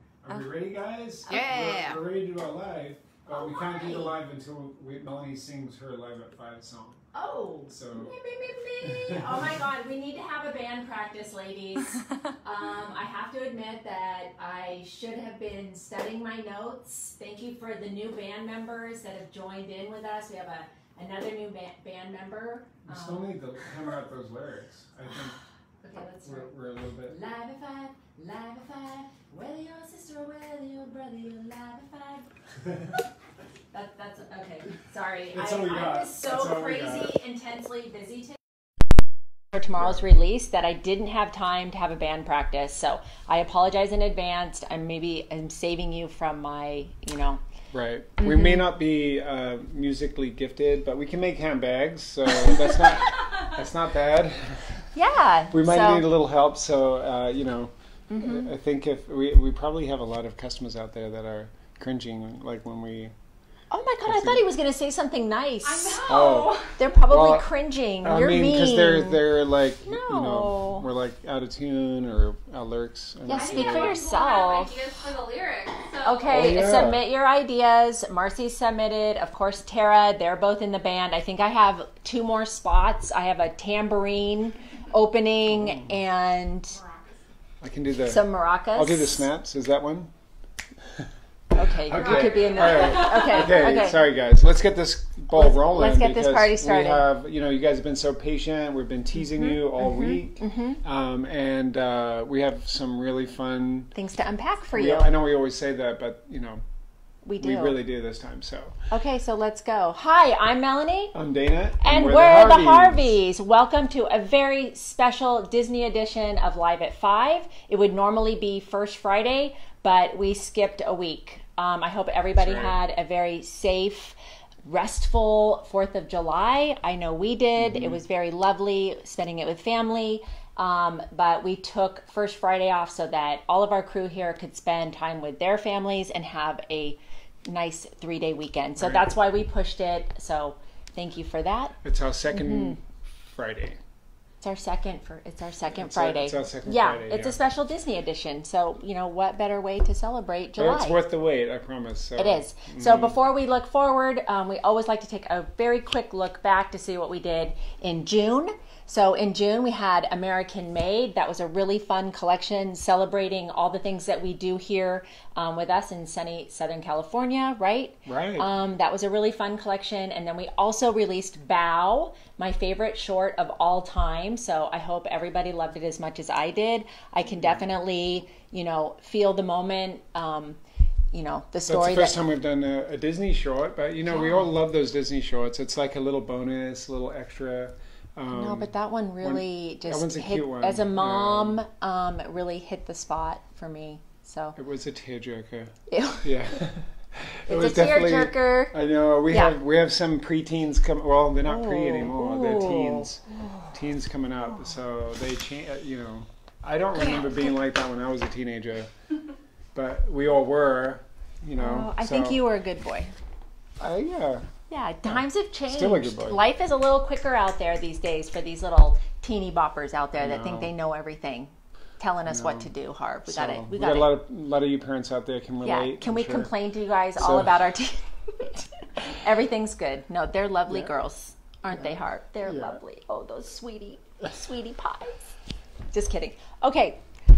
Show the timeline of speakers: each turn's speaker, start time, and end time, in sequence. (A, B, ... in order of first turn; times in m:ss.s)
0:00.2-0:07.0 A
0:03.3-0:04.1 B
0:07.1-0:23.3 B
0:07.7-0:08.2 A
0:08.8-0:09.5 A
0:22.9-0:25.4 A
0:25.8-0:26.5 B
0:26.2-0:27.2 A
0:27.0-0:32.3 B
0:33.7-0:38.4 B
0:35.3-0:37.2 A
0:39.5-0:47.4 B
0:47.7-0:54.8 A
0:48.2-0:48.6 B
0:54.9-0:56.0 B
0:55.5-1:03.1 A
0:58.1-0:58.5 B
1:03.7-1:06.1 B
1:04.0-1:04.4 A
1:05.6-1:06.8 C
1:06.0-1:07.5 A
1:06.7-1:09.2 B
1:08.0-1:14.0 A
1:09.8-1:10.8 B
1:13.2-1:14.8 B
1:13.3-1:16.4 C
1:16.0-1:26.8 B
1:16.3-1:17.0 A
1:25.5-1:25.9 A
1:27.6-1:30.1 A
1:28.0-1:29.3 B
1:30.8-1:43.9 A
1:31.5-1:34.0 B
1:31.9-1:33.4 C
1:35.3-1:37.0 B
1:39.3-1:40.8 B
1:43.9-1:45.1 B
1:44.7-1:46.6 A
1:47.2-1:47.8 B
1:47.4-1:48.8 A
1:48.9-1:51.1 B
1:51.1-1:53.2 A
1:51.8-2:21.7 B
2:02.3-2:02.8 A
2:07.6-2:08.0 A
2:18.8-2:19.1 A
2:21.8-2:22.8 A
2:22.3-2:22.8 B
2:23.3-2:23.8 A
2:24.4-2:31.0 B
2:25.7-2:27.4 A
2:30.6-2:33.2 A
2:32.2-3:00.6 B
2:48.1-2:48.5 A
2:57.3-2:57.6 A
3:01.1-3:02.2 B
3:01.7-3:08.7 A
3:04.0-3:04.5 B
3:08.3-3:14.6 B
3:09.2-3:11.6 A
3:14.6-3:28.9 A
3:15.9-3:16.3 B
3:17.5-3:18.7 B
3:19.3-3:19.6 B
3:21.4-3:23.7 B
3:29.7-3:32.4 A
3:31.6-3:33.1 B
3:33.8-3:34.5 A
3:34.7-3:44.1 B
3:35.1-3:36.4 A
3:40.2-3:40.7 A
3:42.3-3:42.7 A
3:43.3-3:46.5 A
3:45.6-3:55.3 B
3:47.2-3:47.5 A
3:52.4-3:52.8 A
3:55.9-3:57.0 B